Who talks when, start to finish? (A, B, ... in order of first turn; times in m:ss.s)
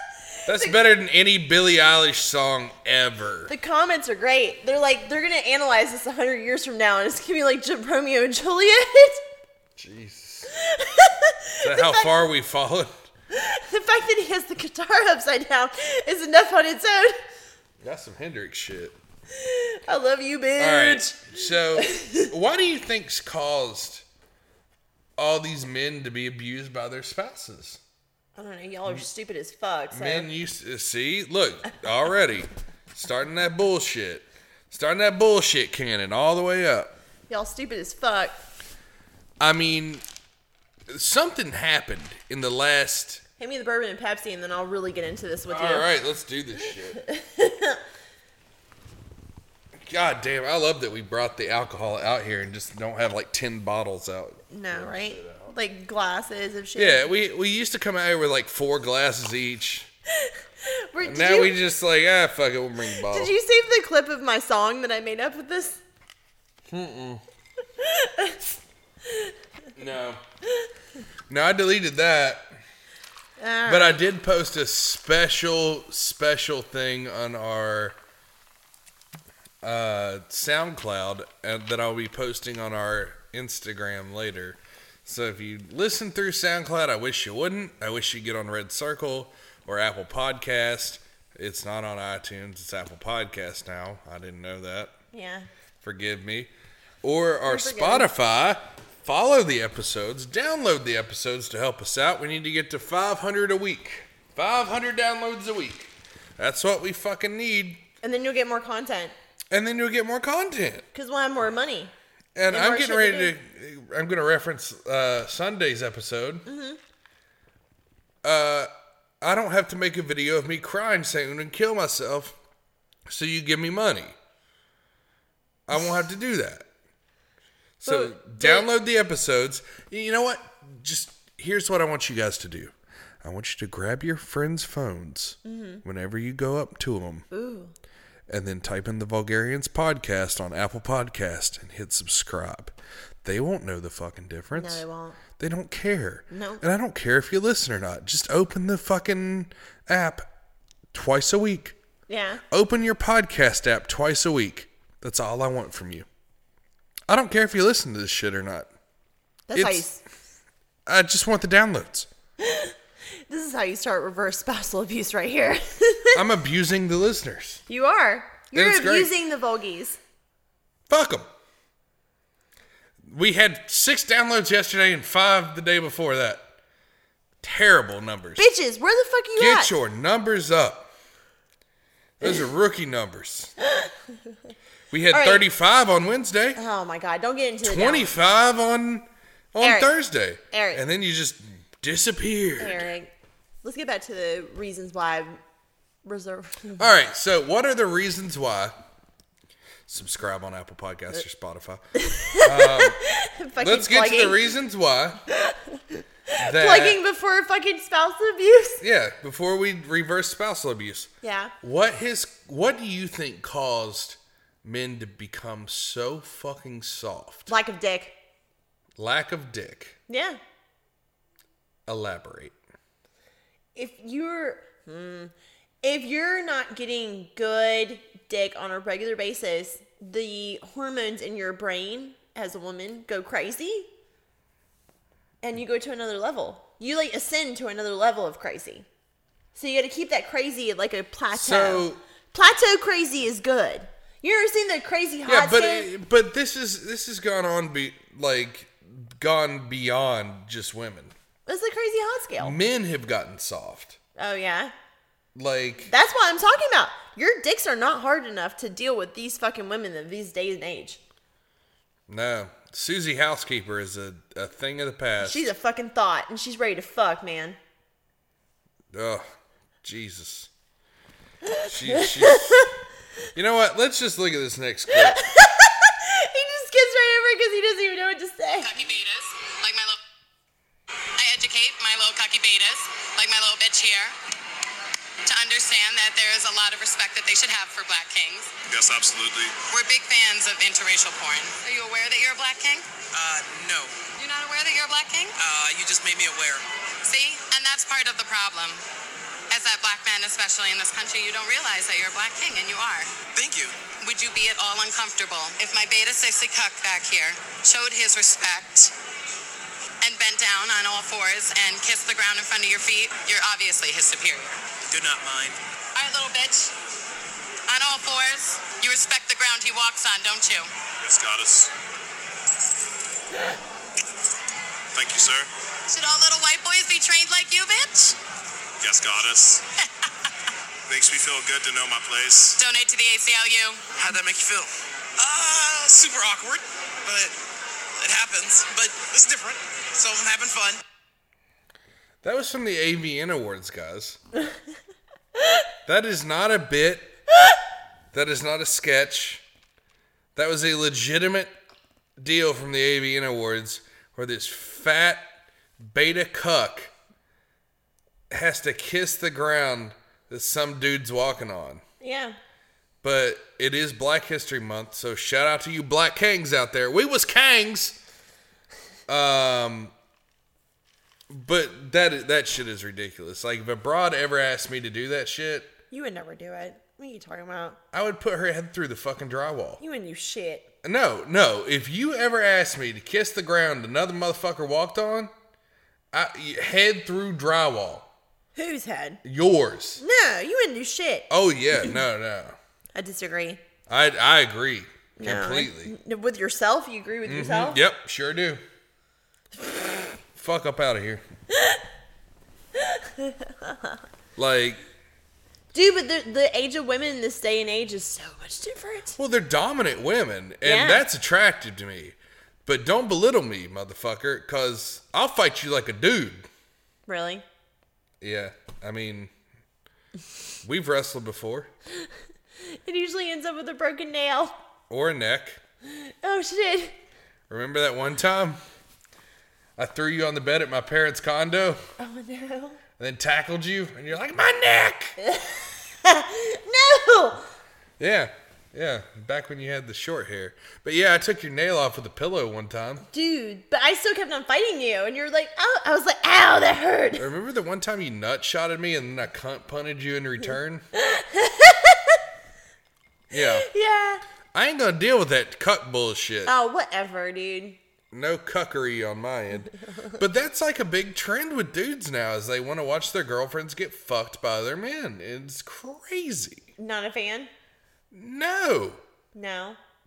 0:00.4-0:03.5 A
0:03.5-0:09.2 B
0:09.8-0:10.5 A
0:10.6-0:12.1 B
0:11.6-0:13.1 A
0:13.3-0:17.2 B
0:17.8-0:19.0 A
0:19.4-0:22.3 B
0:20.6-0:24.0 A
0:25.2-0:27.8 A
0:28.4-0:30.3 B
0:29.9-0:36.9 A
0:37.3-0:38.4 B
0:39.4-0:40.0 A
0:40.9-0:43.2 A
0:43.4-0:45.9 B
0:45.5-0:47.0 A
0:47.0-0:47.8 B
0:49.8-0:55.5 A
0:54.5-0:57.1 B
0:56.8-0:59.9 A
1:00.2-1:01.6 B
1:01.0-1:03.3 A
1:03.0-1:05.8 B
1:06.7-1:07.2 A
1:07.8-1:08.5 B
1:09.8-1:10.2 A
1:11.3-1:12.5 A
1:13.4-1:14.0 B
1:13.6-1:18.0 A
1:19.6-1:34.9 A
1:35.1-1:35.5 B
1:35.8-1:36.5 A
1:37.0-1:47.9 A
1:37.4-1:38.1 B
1:48.0-1:49.1 B
1:49.5-1:50.9 A
1:50.9-1:51.9 B
1:52.4-1:56.4 A
1:52.5-1:53.4 B
1:56.4-1:56.8 B
1:58.2-2:02.4 A
2:03.1-2:04.2 A
2:05.7-2:06.7 A
2:07.8-2:17.3 A
2:07.8-2:08.7 B
2:15.4-2:15.8 B
2:17.3-2:17.7 B
2:18.3-2:24.8 A
2:24.5-2:25.2 B
2:25.4-2:30.3 A
2:26.3-2:26.6 B
2:30.9-2:31.8 A
2:32.1-2:32.4 B
2:32.5-2:36.1 A
2:37.1-2:38.7 A
2:39.5-2:40.0 B
2:39.5-2:39.9 A
2:40.9-2:42.1 A
2:42.4-2:42.7 B
2:43.3-2:46.2 B
2:46.1-2:47.6 A
2:47.7-2:50.0 B
2:48.5-2:49.1 A
2:50.9-2:51.3 A
2:53.1-2:56.5 A
2:57.4-2:58.4 A
2:58.4-2:59.7 B
2:59.4-3:00.9 A
3:02.2-3:03.5 A
3:04.9-3:06.6 A
3:05.1-3:05.4 B
3:06.6-3:08.1 B
3:07.6-3:12.9 A
3:09.6-3:09.9 B
3:10.5-3:10.8 B
3:12.6-3:13.1 B
3:13.6-3:15.4 B
3:16.0-3:16.9 B
3:16.8-3:18.8 A
3:19.9-3:21.8 A
3:22.0-3:24.5 B
3:22.4-3:23.0 A
3:23.6-3:25.2 A
3:25.4-3:28.8 B
3:26.4-3:27.0 A
3:28.8-3:31.1 A
3:31.2-3:31.5 B
3:31.6-3:37.5 A
3:37.5-3:38.2 B
3:39.0-3:40.0 A
3:40.1-3:40.4 B
3:41.9-3:42.6 A
3:43.8-3:53.9 B
3:55.4-3:58.9 B
3:59.6-4:05.9 B
4:01.3-4:02.0 A
4:05.3-4:11.1 A
4:11.4-4:12.6 B
4:12.4-4:14.0 A
4:14.2-4:14.7 B
4:15.4-4:15.9 A
4:15.9-4:21.0 B
4:22.1-4:25.4 A
4:25.2-4:27.6 B
4:28.9-4:29.3 A
4:29.8-4:30.5 A
4:31.5-4:32.7 B
4:31.6-4:32.6 A
4:33.4-4:35.2 A
4:34.9-4:38.7 B
4:38.6-4:40.0 C
4:41.2-4:44.1 C
4:45.3-4:48.5 C
4:48.7-4:49.6 D
4:49.7-4:52.8 C
4:53.1-4:54.1 E
4:54.2-4:55.3 C
4:55.4-4:56.6 E
4:57.0-4:58.8 C
4:59.5-5:03.1 C
5:03.3-5:03.8 E
5:04.0-5:08.9 C
5:10.0-5:14.5 C
5:14.9-5:15.6 E
5:15.9-5:16.7 C
5:17.7-5:20.7 C
5:21.0-5:21.7 D
5:24.9-5:25.5 D
5:25.9-5:28.2 C
5:28.8-5:29.6 D
5:30.9-5:32.6 D
5:32.6-5:33.8 C
5:33.9-5:37.3 E
5:38.0-5:40.8 E
5:42.2-5:44.2 A
5:45.9-5:47.1 A
5:48.1-5:49.4 A
5:50.4-5:51.5 A
5:52.2-5:56.9 A
5:58.3-6:01.8 A
6:02.0-6:02.4 B
6:03.0-6:08.0 A
6:09.1-6:09.9 A
6:11.3-6:15.7 A
6:15.9-6:17.8 B
6:17.9-6:19.8 A
6:19.8-6:20.7 B
6:20.8-6:25.3 A
6:26.1-6:28.1 A
6:28.6-6:29.2 B
6:29.2-6:30.0 A
6:30.0-6:31.3 B
6:31.3-6:32.6 A
6:32.9-6:33.6 B
6:33.9-6:35.9 A
6:35.2-6:37.8 B
6:37.3-6:38.6 A
6:40.3-6:41.2 A
6:42.8-6:44.0 B
6:44.4-6:44.8 A
6:45.7-6:49.2 B
6:49.2-6:56.5 A
6:50.6-6:51.0 B
6:57.1-6:57.4 B
6:58.2-6:59.3 A
7:00.6-7:01.7 A
7:02.7-7:04.6 B
7:04.9-7:05.6 A
7:05.9-7:07.0 B
7:07.5-7:08.6 A
7:09.8-7:11.8 A
7:12.0-7:12.8 B
7:13.0-7:15.1 A
7:15.2-7:17.5 B
7:18.0-7:23.0 A
7:23.1-7:27.2 B
7:27.2-7:30.8 A
7:30.9-7:32.2 B
7:33.3-7:33.7 A
7:33.4-7:34.2 B
7:34.5-7:36.5 A
7:36.4-7:37.8 B
7:38.1-7:46.7 A
7:46.8-7:47.5 B
7:48.1-7:49.0 A
7:49.3-7:49.8 B